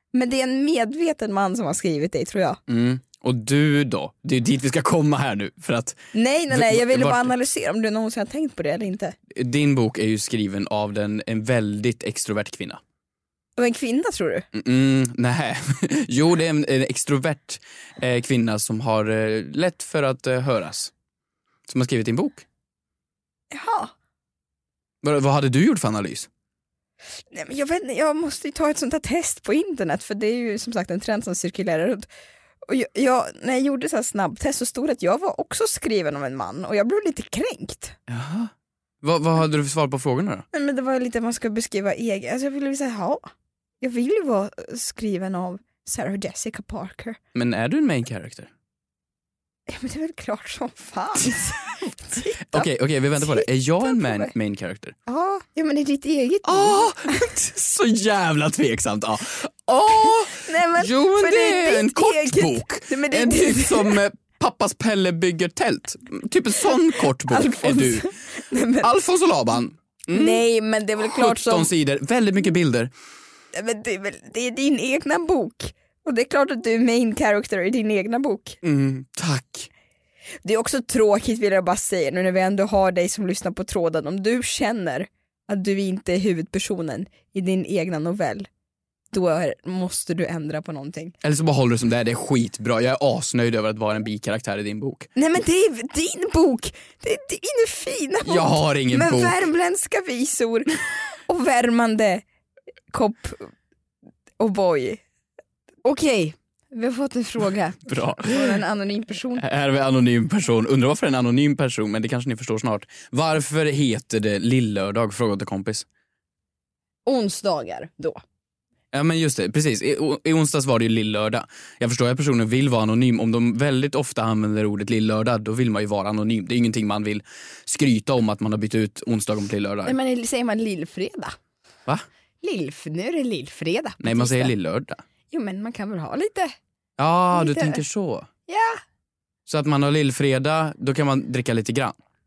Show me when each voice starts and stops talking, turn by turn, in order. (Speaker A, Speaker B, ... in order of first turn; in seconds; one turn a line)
Speaker A: 0.1-2.6
Speaker B: 2.7-6.0
Speaker A: 6.1-9.1
Speaker B: 6.5-7.3
Speaker B: 9.3-12.8
Speaker A: 13.6-14.4
Speaker B: 14.5-20.9
Speaker B: 21.7-22.4
Speaker A: 23.5-23.9
Speaker B: 25.0-26.3
Speaker A: 27.3-32.1
Speaker A: 32.7-38.0
Speaker B: 38.1-38.5
Speaker B: 39.0-40.5
Speaker A: 40.5-43.3
Speaker A: 43.8-47.2
Speaker B: 47.3-48.5
Speaker A: 49.7-54.3
Speaker B: 52.5-55.0
Speaker A: 55.1-57.3
Speaker B: 56.4-68.1
Speaker A: 60.3-64.0
Speaker A: 66.7-68.9
Speaker B: 68.8-70.4
Speaker A: 70.1-71.7
Speaker B: 71.0-72.9
Speaker A: 73.5-78.6
Speaker B: 78.6-79.7
Speaker A: 80.4-88.5
Speaker A: 89.1-91.1
Speaker B: 91.2-95.1
Speaker A: 95.2-100.7
Speaker B: 98.2-99.4
Speaker A: 101.3-102.2
Speaker A: 102.9-103.5
Speaker A: 104.4-105.0
Speaker A: 105.8-109.4
Speaker B: 107.9-108.6
Speaker B: 109.4-115.9
Speaker A: 117.0-118.2
Speaker B: 118.9-129.9
Speaker A: 129.8-131.3
Speaker A: 132.4-134.5
Speaker B: 134.0-135.0
Speaker A: 135.3-136.5
Speaker B: 137.0-138.3
Speaker A: 137.3-137.8
Speaker A: 138.5-138.8
Speaker B: 139.5-142.0